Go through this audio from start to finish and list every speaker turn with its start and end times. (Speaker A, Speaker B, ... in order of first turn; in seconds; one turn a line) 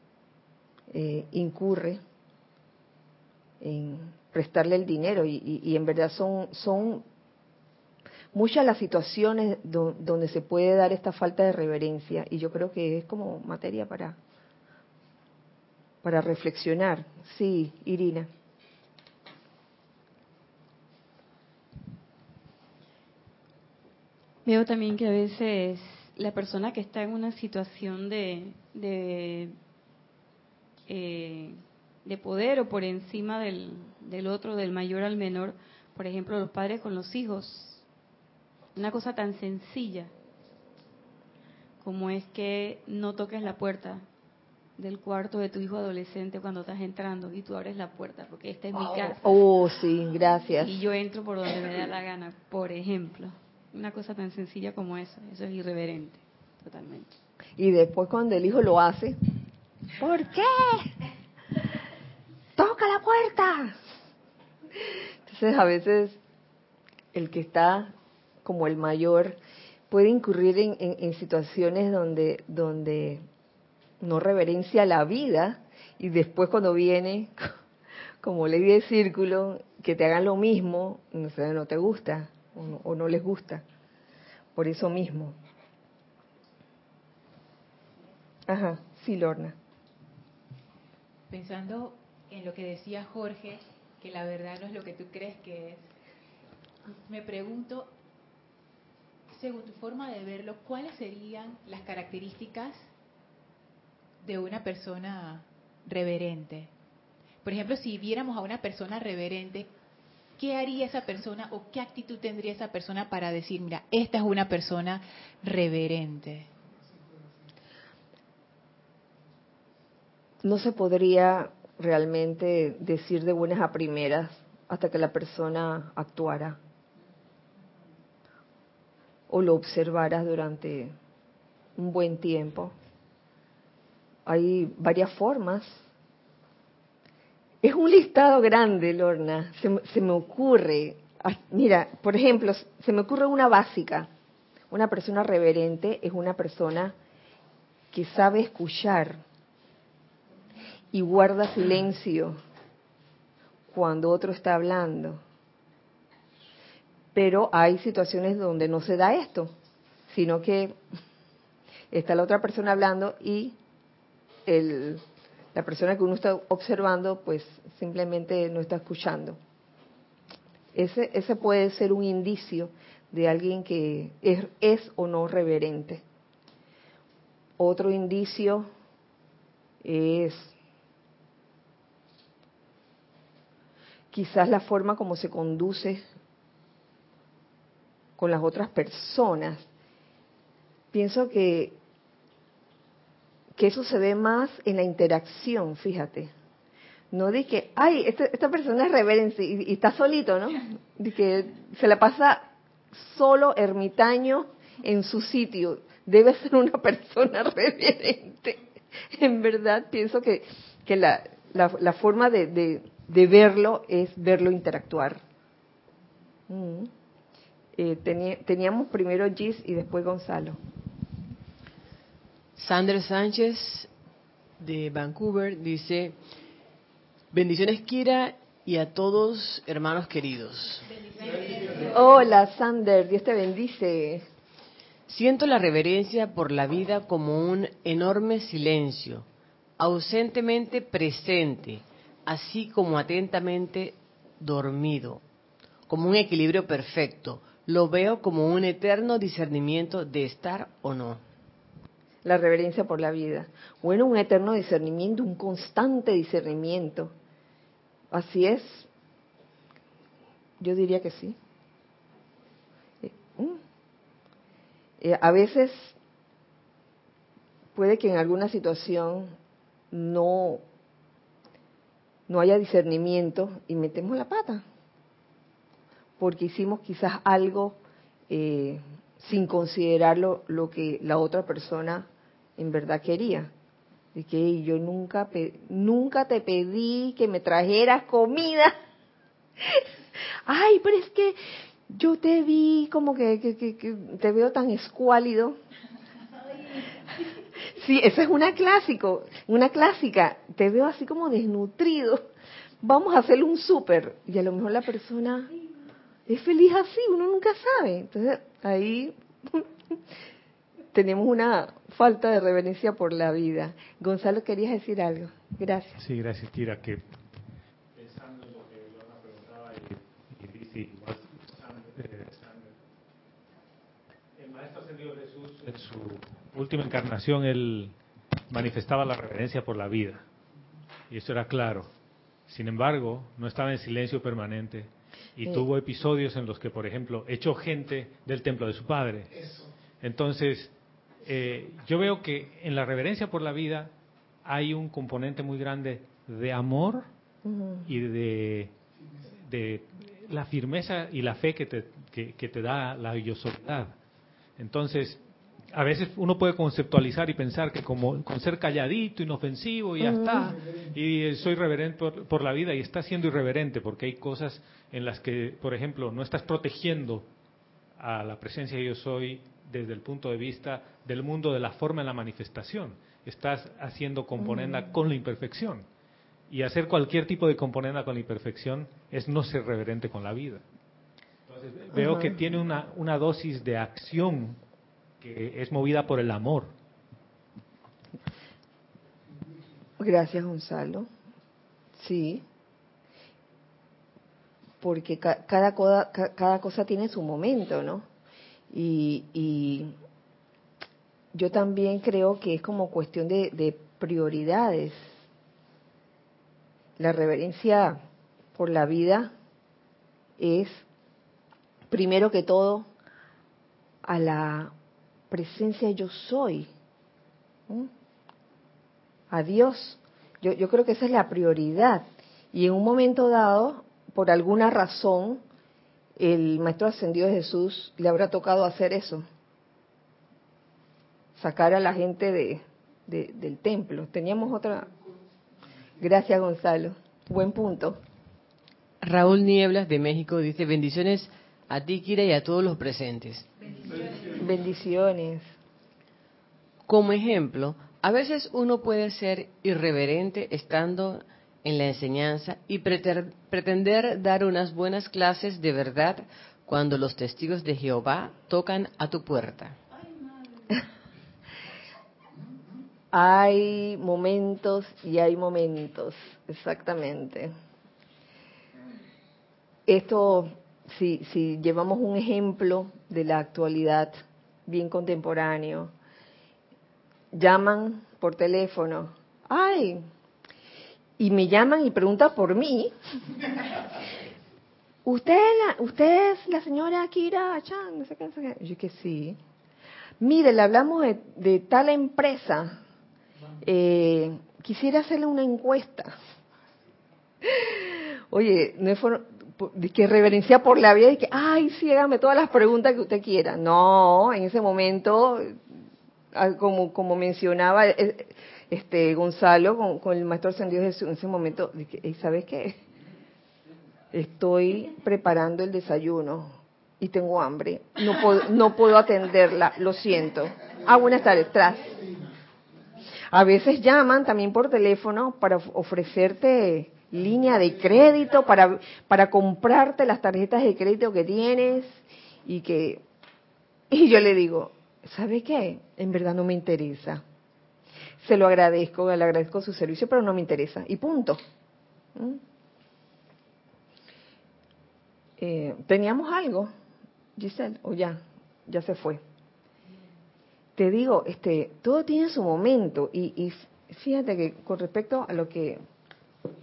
Speaker A: 0.9-2.0
Speaker A: 3.6-7.0
Speaker A: 8.3-14.2
Speaker A: 16.0-18.3
Speaker B: 24.5-29.6
Speaker B: 30.9-37.8
Speaker B: 38.8-40.1
Speaker B: 41.8-44.0
Speaker B: 44.8-49.4
Speaker A: 48.7-50.8
Speaker B: 50.6-57.1
Speaker A: 57.6-59.2
Speaker A: 60.0-60.9
Speaker A: 62.6-63.8
Speaker A: 65.3-66.2
Speaker A: 67.1-67.9
Speaker A: 68.4-69.4
Speaker A: 69.9-73.2
Speaker A: 74.0-77.5
Speaker A: 78.2-83.6
Speaker A: 84.5-85.4
Speaker A: 88.5-89.5
Speaker C: 91.3-95.9
Speaker C: 97.0-97.9
Speaker C: 99.3-102.9
Speaker C: 104.2-106.7
Speaker C: 107.4-109.7
Speaker C: 110.4-116.5
Speaker A: 120.4-126.6
Speaker A: 129.3-130.9
Speaker A: 131.8-132.7
Speaker A: 134.3-135.9
Speaker A: 137.6-144.1
Speaker A: 144.7-146.9
Speaker A: 147.9-149.2
Speaker A: 150.9-152.4
Speaker A: 153.7-155.2
Speaker A: 157.2-159.5
Speaker A: 160.1-160.8
Speaker A: 161.9-163.6
Speaker A: 164.5-165.0
Speaker A: 165.5-169.4
Speaker A: 170.8-176.0
Speaker A: 177.6-178.7
Speaker A: 179.8-180.5
Speaker A: 184.1-186.0
Speaker A: 188.2-189.7
Speaker A: 190.9-191.8
Speaker A: 193.6-196.3
Speaker A: 197.1-215.2
Speaker A: 216.5-216.9
Speaker A: 217.8-220.6
Speaker D: 222.6-223.9
Speaker D: 224.6-226.2
Speaker D: 227.3-230.9
Speaker A: 231.9-234.3
Speaker D: 235.1-239.3
Speaker D: 239.8-245.2
Speaker D: 245.9-251.2
Speaker A: 252.2-257.1
Speaker A: 258.1-258.9
Speaker A: 260.6-261.4
Speaker A: 263.0-263.6
Speaker A: 265.0-266.0
Speaker A: 267.8-269.3
Speaker A: 269.9-270.6
Speaker A: 272.3-274.6
Speaker A: 276.2-277.8
Speaker A: 278.3-283.5
Speaker A: 284.1-288.7
Speaker A: 290.5-291.4
Speaker A: 291.9-295.6
Speaker A: 297.6-302.3
Speaker A: 302.8-305.5
Speaker A: 306.3-309.7
Speaker A: 310.9-316.0
Speaker E: 316.0-317.0
Speaker E: 317.9-322.7
Speaker E: 324.4-327.9
Speaker E: 328.5-330.2
Speaker E: 331.1-331.9
Speaker E: 332.5-339.5
Speaker E: 340.0-340.7
Speaker E: 341.2-343.9
Speaker E: 344.4-347.1
Speaker A: 347.4-347.9
Speaker E: 347.9-348.7
Speaker E: 349.3-353.9
Speaker E: 354.6-355.2
Speaker E: 355.7-367.3
Speaker A: 360.0-360.5
Speaker E: 368.0-375.9
Speaker A: 374.4-374.8
Speaker E: 376.5-380.6
Speaker E: 381.5-384.6
Speaker A: 381.9-382.3
Speaker E: 385.2-386.7
Speaker A: 390.0-391.1
Speaker A: 392.0-392.4
Speaker A: 394.8-398.1
Speaker A: 398.7-399.9
Speaker A: 401.3-405.1
Speaker A: 407.0-408.0
Speaker A: 408.6-409.3
Speaker A: 410.4-410.8
Speaker A: 411.9-412.9
Speaker A: 414.0-414.7
Speaker A: 415.3-416.7
Speaker A: 419.3-425.4
Speaker A: 426.2-429.3
Speaker A: 431.4-434.9
Speaker A: 436.0-438.0
Speaker D: 439.0-443.5
Speaker A: 444.4-445.4
Speaker D: 446.9-459.8
Speaker A: 463.1-467.5
Speaker A: 469.9-474.1
Speaker A: 474.7-475.9
Speaker A: 477.3-480.1
Speaker A: 481.2-482.9
Speaker A: 485.1-489.4
Speaker A: 490.2-492.8
Speaker A: 493.6-496.1
Speaker A: 497.4-505.6
Speaker A: 506.3-512.8
Speaker A: 514.1-522.2
Speaker A: 523.3-533.0
Speaker A: 533.9-537.2
Speaker A: 538.2-541.4
Speaker A: 542.1-542.4
Speaker A: 545.4-546.7
Speaker A: 547.4-549.2
Speaker A: 550.8-555.8